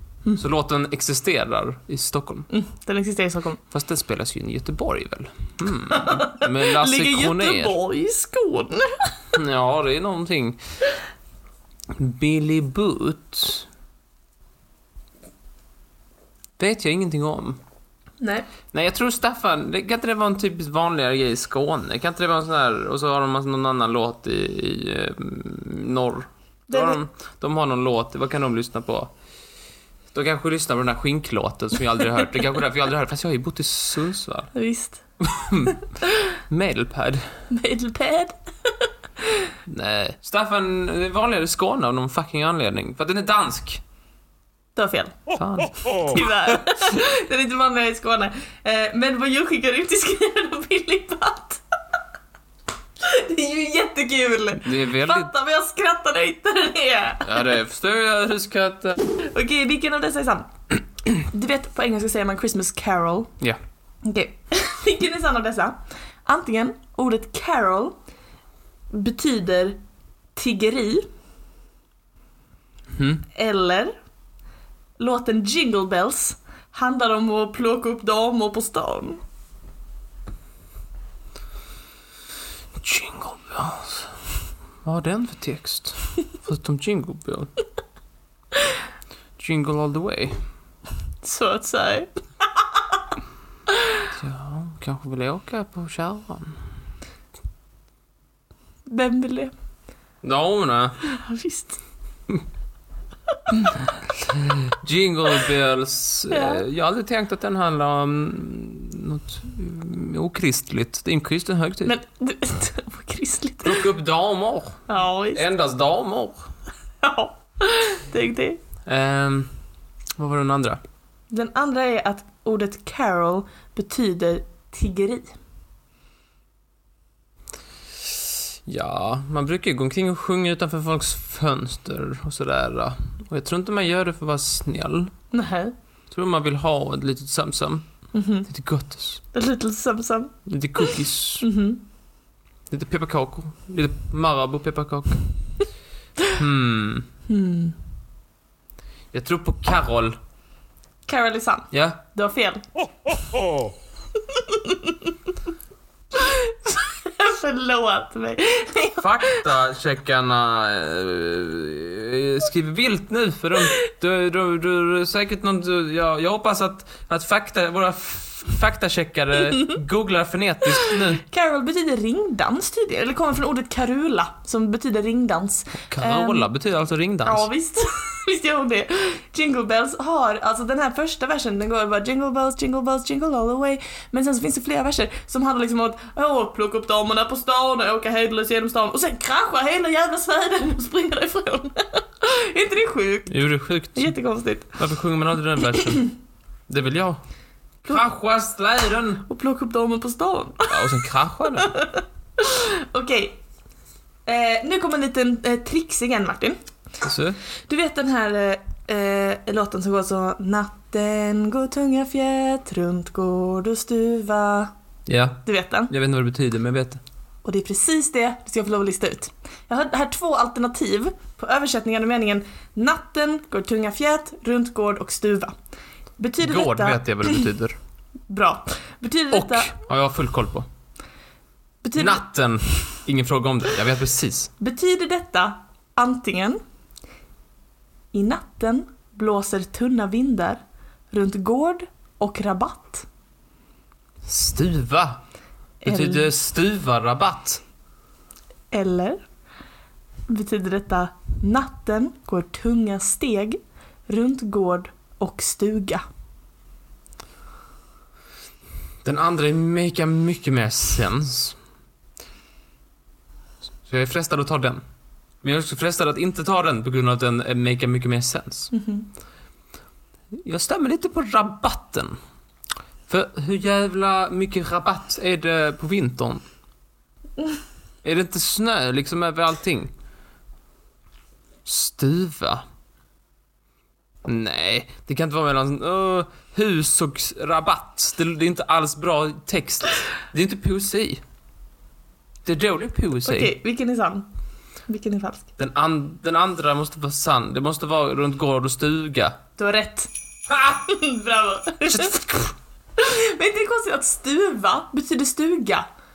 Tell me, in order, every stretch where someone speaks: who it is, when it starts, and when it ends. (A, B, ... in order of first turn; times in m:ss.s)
0:00.3-0:02.5 A
0:02.5-0:03.6 B
0:03.7-0:07.8 A
0:05.9-0:09.1 B
0:09.3-0:10.6 A
0:11.9-0:13.7 A
0:16.6-0:17.6 A
0:18.2-0:18.5 B
0:18.7-0:29.1 A
0:26.7-0:27.0 B
0:30.1-0:34.5 A
0:34.5-0:35.0 B
0:35.2-0:35.8 A
0:36.4-0:37.2 A
0:37.5-0:39.5 B
0:39.7-0:43.8 A
0:44.8-0:45.2 B
0:45.3-0:45.9 A
0:45.9-0:51.6 B
0:53.0-0:57.6 B
0:54.6-0:55.3 A
0:57.2-0:59.0 A
0:59.2-1:00.5 B
1:01.2-1:03.3 B
1:04.0-1:08.0 B
1:08.9-1:09.8 B
1:10.4-1:11.1 B
1:13.0-1:13.2 A
1:13.3-1:13.9 B
1:15.0-1:19.2 B
1:22.8-1:24.2 A
1:24.8-1:27.5 A
1:29.4-1:30.4 A
1:31.2-1:32.1 B
1:34.1-1:36.6 A
1:38.9-1:39.5 B
1:40.2-1:41.0 A
1:41.0-1:41.8 B
1:43.6-1:51.9 A
1:46.3-1:46.6 B
1:51.9-1:53.9 B
1:53.6-1:56.5 A
1:54.9-1:55.4 B
1:57.0-1:58.6 B
1:58.9-1:59.5 A
2:00.2-2:00.8 A
2:01.3-2:05.4 B
2:08.7-2:15.1 A
2:15.3-2:15.7 B
2:16.1-2:17.9 A
2:18.1-2:18.5 B
2:18.5-2:19.2 A
2:19.3-2:21.8 B
2:20.5-2:21.5 A
2:22.7-2:25.2 A
2:26.3-2:27.1 A
2:27.3-2:27.8 B
2:29.1-2:30.2 A
2:31.1-2:33.2 B
2:31.7-2:32.0 A
2:34.2-2:35.3 B
2:36.1-2:39.5 B
2:39.0-2:51.2 A
2:50.8-2:56.5 B
2:55.8-2:57.5 A
2:57.2-3:13.4 B
3:13.3-3:14.1 A
3:14.0-3:14.8 B
3:14.7-3:16.1 A
3:16.7-3:17.2 A
3:17.9-3:19.3 A
3:19.3-3:20.9 B
3:20.7-3:21.8 A
3:21.6-3:23.4 B
3:24.3-3:26.6 B
3:27.0-3:27.4 A
3:27.7-3:34.7 B
3:35.1-3:37.0 A
3:35.4-3:35.9 B
3:37.4-3:45.5 B
3:46.2-3:47.5 B
3:46.4-3:47.8 A
3:48.3-3:49.7 B
3:49.3-3:50.7 A
3:51.8-3:52.2 B
3:52.0-3:54.5 A
3:54.6-3:56.6 B
3:58.1-4:00.6 B
4:01.1-4:03.1 B
4:04.3-4:05.2 A
4:05.8-4:07.6 A
4:05.8-4:06.3 B
4:08.7-4:09.2 B
4:10.3-4:16.0 B
4:19.0-4:21.6 A
4:23.8-4:24.8 A
4:25.4-4:28.7 A
4:28.7-4:29.1 B
4:30.3-4:32.2 A
4:33.1-4:36.4 A
4:38.0-4:39.9 A
4:41.7-4:42.6 A
4:44.2-4:51.2 A
4:52.4-4:53.5 A
4:53.2-4:54.3 B
4:54.9-4:55.5 B
4:55.6-4:59.4 A
4:59.6-5:00.1 B
5:00.5-5:00.8 A
5:00.6-5:02.3 B
5:01.9-5:02.5 A
5:03.0-5:05.9 B